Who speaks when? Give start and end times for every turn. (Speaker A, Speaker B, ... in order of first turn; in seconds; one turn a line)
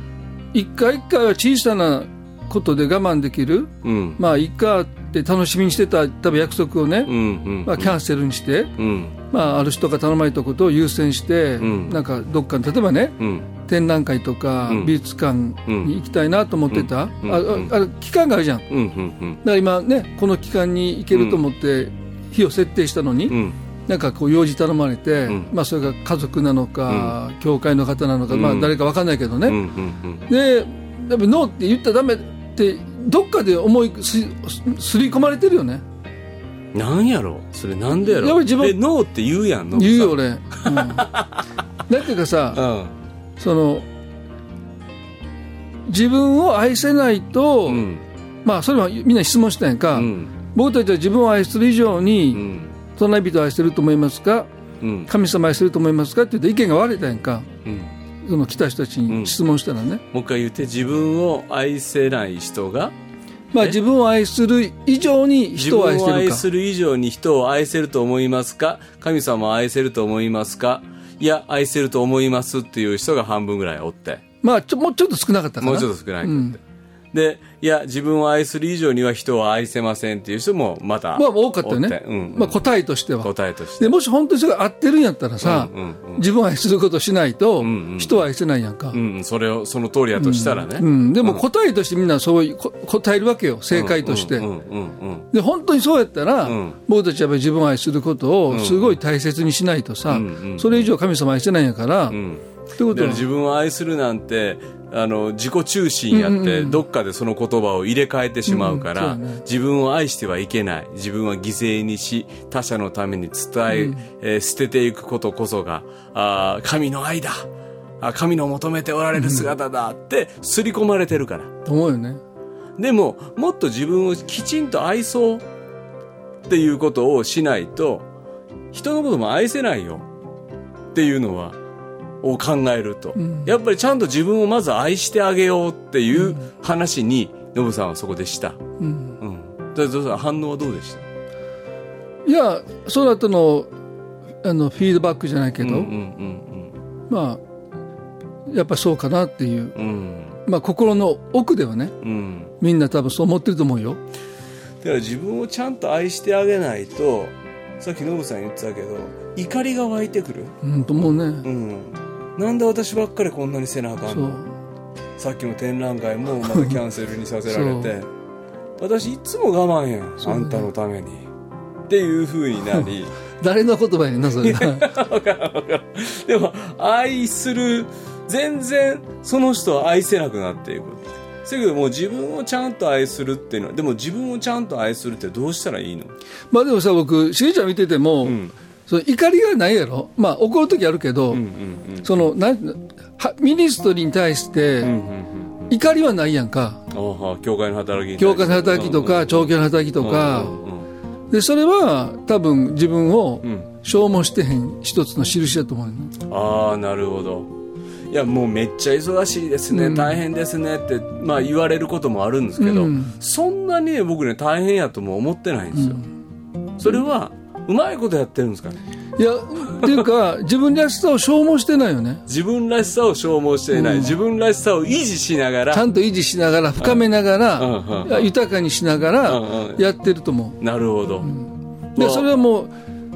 Speaker A: 0.5-8.7
Speaker B: 3.8-4.2
Speaker B: 7.1-8.0
Speaker B: 8.8-9.2
Speaker A: 9.3-18.7
Speaker B: 11.6-12.0
Speaker B: 13.2-13.4
Speaker B: 14.7-14.9
Speaker B: 15.7-15.9
Speaker B: 16.7-17.7
Speaker B: 18.7-19.4
Speaker A: 19.4-29.6
Speaker B: 21.1-21.4
Speaker B: 23.3-23.6
Speaker B: 26.9-27.2
Speaker B: 28.3-28.8
Speaker B: 29.5-30.2
Speaker A: 30.3-35.8
Speaker B: 36.7-41.5
Speaker A: 37.9-38.8
Speaker A: 39.8-41.1
Speaker A: 41.9-42.6
Speaker B: 42.5-42.9
Speaker A: 43.4-43.9
Speaker A: 45.9-47.9
Speaker B: 47.7-48.0
Speaker A: 48.4-54.5
Speaker B: 50.0-50.3
Speaker B: 52.3-52.7
Speaker B: 54.8-55.1
Speaker A: 55.1-57.5
Speaker B: 57.6-57.9
Speaker A: 58.2-60.0
Speaker B: 59.1-59.4
Speaker B: 60.1-62.9
Speaker A: 63.5-66.5
Speaker B: 65.6-74.2
Speaker A: 74.4-76.6
Speaker B: 75.6-76.6
Speaker B: 77.1-82.6
Speaker A: 81.2-89.0
Speaker B: 83.2-84.0
Speaker B: 85.4-86.2
Speaker B: 87.6-88.2
Speaker B: 88.9-91.4
Speaker A: 90.2-94.5
Speaker B: 93.7-95.3
Speaker A: 95.3-102.2
Speaker B: 96.4-96.8
Speaker B: 98.5-99.0
Speaker B: 100.1-100.9
Speaker B: 102.1-117.5
Speaker A: 102.8-103.2
Speaker A: 106.1-106.8
Speaker A: 108.5-109.4
Speaker A: 113.7-114.0
Speaker B: 118.0-121.5
Speaker A: 119.2-119.5
Speaker A: 121.7-122.2
Speaker B: 122.8-125.5
Speaker B: 126.5-128.1
Speaker B: 128.7-130.1
Speaker B: 130.9-131.6
Speaker B: 132.2-138.6
Speaker A: 133.2-133.5
Speaker A: 136.2-136.4
Speaker A: 138.8-139.2
Speaker B: 139.2-141.1
Speaker A: 142.3-143.7
Speaker A: 144.4-145.9
Speaker B: 145.6-146.7
Speaker A: 147.1-147.4
Speaker A: 148.5-149.8
Speaker B: 149.8-150.3
Speaker A: 150.5-151.9
Speaker B: 152.0-152.5
Speaker A: 152.6-154.0
Speaker B: 154.8-160.6
Speaker A: 160.6-161.5
Speaker B: 161.4-164.4
Speaker A: 164.1-164.5
Speaker B: 165.2-168.1
Speaker A: 166.5-166.8
Speaker A: 167.5-167.9
Speaker B: 168.8-171.3
Speaker A: 170.2-170.6
Speaker B: 171.9-173.1
Speaker A: 173.4-174.9
Speaker B: 174.4-186.1
Speaker A: 186.5-191.4
Speaker B: 188.2-188.5
Speaker B: 191.3-192.2
Speaker A: 192.0-194.9
Speaker B: 194.8-195.7
Speaker A: 195.7-196.8
Speaker B: 196.9-200.9
Speaker A: 198.2-200.6
Speaker A: 201.3-206.1
Speaker B: 206.2-207.5
Speaker B: 208.1-216.0
Speaker A: 209.7-210.2
Speaker A: 212.6-213.1
Speaker A: 215.8-216.1
Speaker B: 216.8-218.8
Speaker A: 219.2-222.2
Speaker B: 219.8-220.1
Speaker B: 222.3-225.9
Speaker A: 223.7-224.2
Speaker A: 225.7-230.6
Speaker B: 226.8-227.0
Speaker B: 227.6-228.3
Speaker B: 229.2-229.8
Speaker B: 230.6-231.3
Speaker A: 231.2-232.7
Speaker B: 231.9-232.3